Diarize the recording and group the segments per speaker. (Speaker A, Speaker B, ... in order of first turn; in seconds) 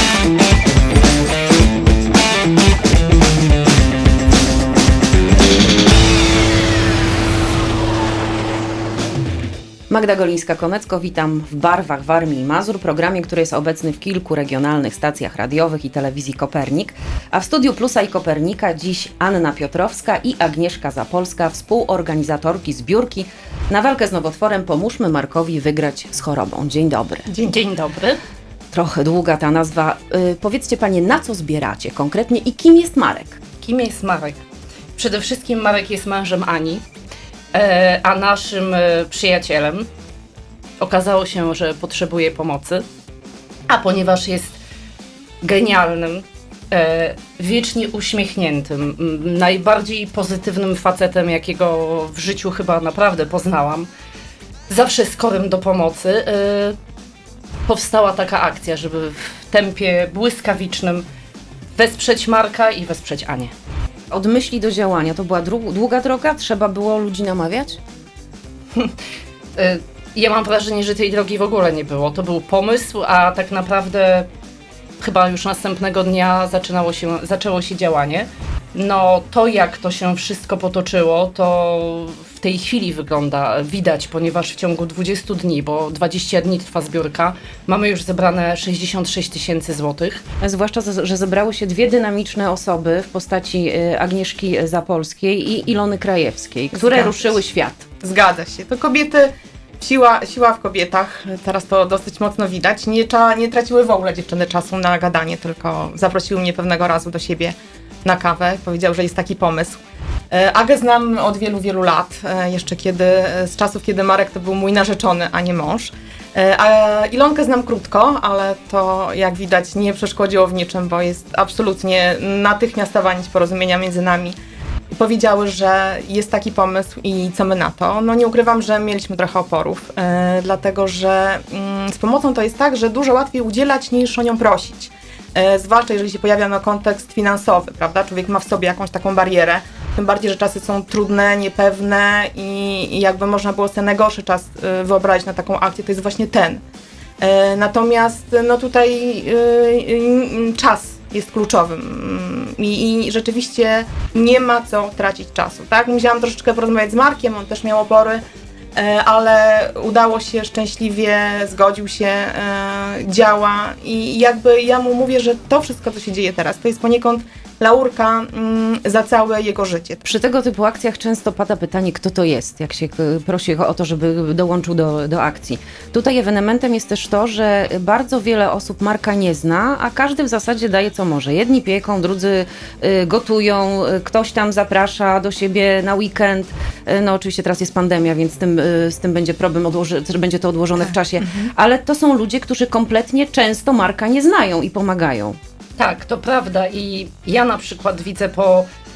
Speaker A: 9.9-27.3, 28.7-33.4, 64.1-67.8, 90.4-97.8, 170.0-195.4
Speaker B: 27.4-28.2, 33.6-34.4, 35.0-36.8, 37.5-39.9, 40.8-42.8, 43.7-44.6, 45.4-53.9, 54.7-56.8, 57.7-61.0, 61.8-63.5, 69.5-74.3, 75.0-90.2, 195.8-198.7
Speaker C: 96.7-97.2, 98.0-99.3, 99.8-109.8, 110.3-124.3, 124.9-146.6, 147.2-158.2, 158.8-170.0